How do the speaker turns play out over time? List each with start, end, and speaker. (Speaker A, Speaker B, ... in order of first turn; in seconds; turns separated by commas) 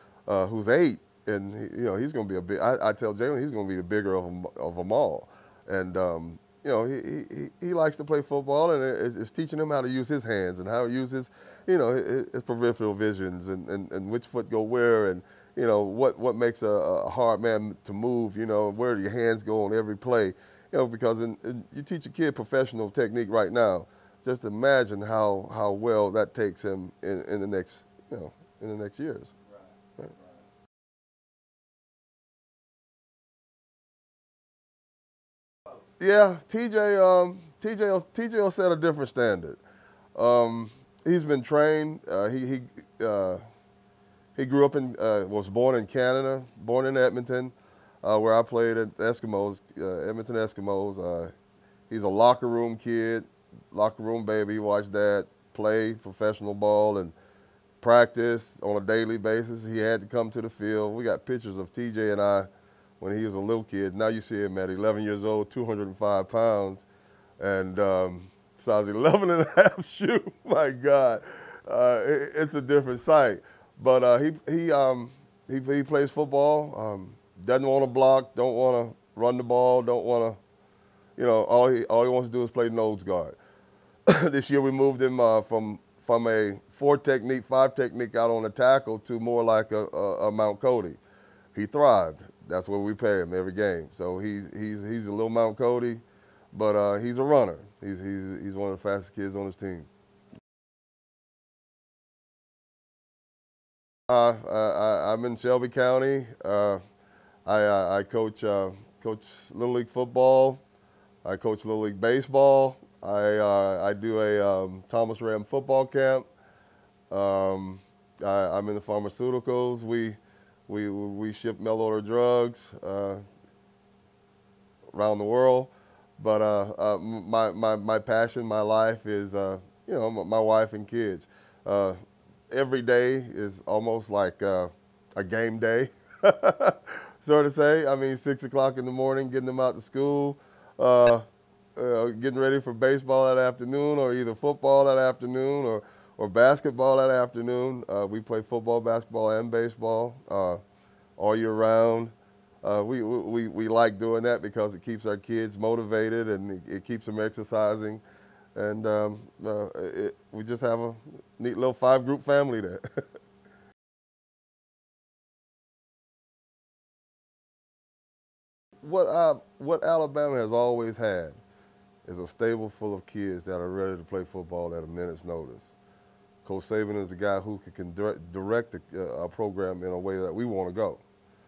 Speaker A: 0.3-29.4, Speaker A: 36.0-39.6, Speaker A: 40.1-43.4, Speaker A: 44.4-51.3, Speaker A: 51.9-57.1, Speaker A: 57.8-62.5, Speaker A: 63.0-66.8, Speaker A: 67.4-80.4, Speaker A: 81.2-83.4, Speaker A: 84.1-91.0, Speaker A: 91.5-99.9, Speaker A: 104.1-106.8, Speaker A: 107.5-110.6, Speaker A: 111.2-116.3, Speaker A: 117.1-123.2, Speaker A: 124.9-132.0, Speaker A: 132.5-141.2, Speaker A: 141.8-150.6, Speaker A: 151.2-158.0, Speaker A: 158.6-162.8, Speaker A: 168.8-171.4, Speaker A: 172.1-175.7, Speaker A: 176.4-181.0